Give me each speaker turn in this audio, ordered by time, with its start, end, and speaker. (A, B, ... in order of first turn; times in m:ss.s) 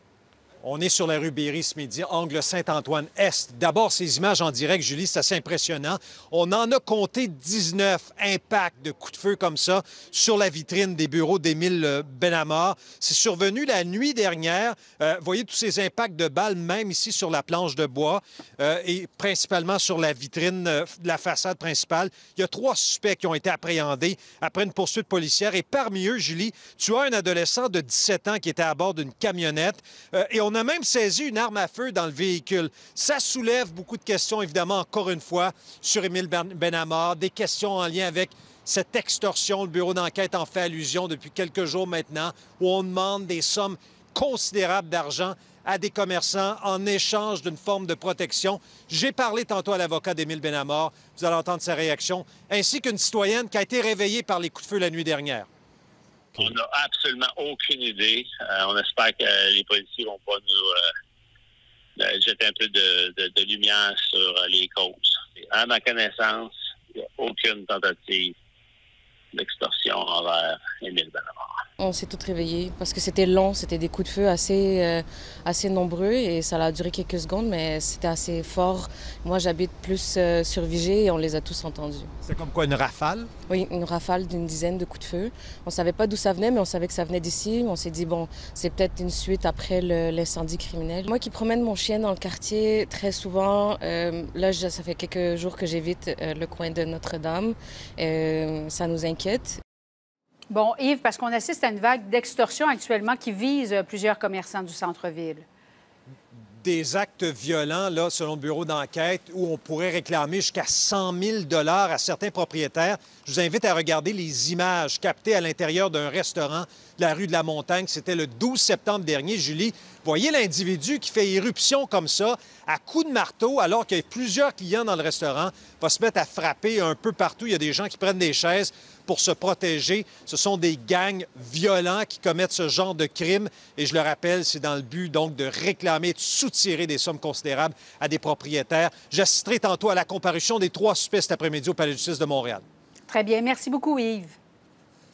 0:00.6-0:55.5 A
0:56.4-1:00.8 B
1:02.0-1:08.3 B
1:09.3-1:11.5 B
1:11.8-1:22.1 C
1:22.2-1:23.3 A
1:23.5-1:39.6 C
1:40.5-1:45.4 D
1:46.6-2:22.6 A
2:23.1-2:24.4 D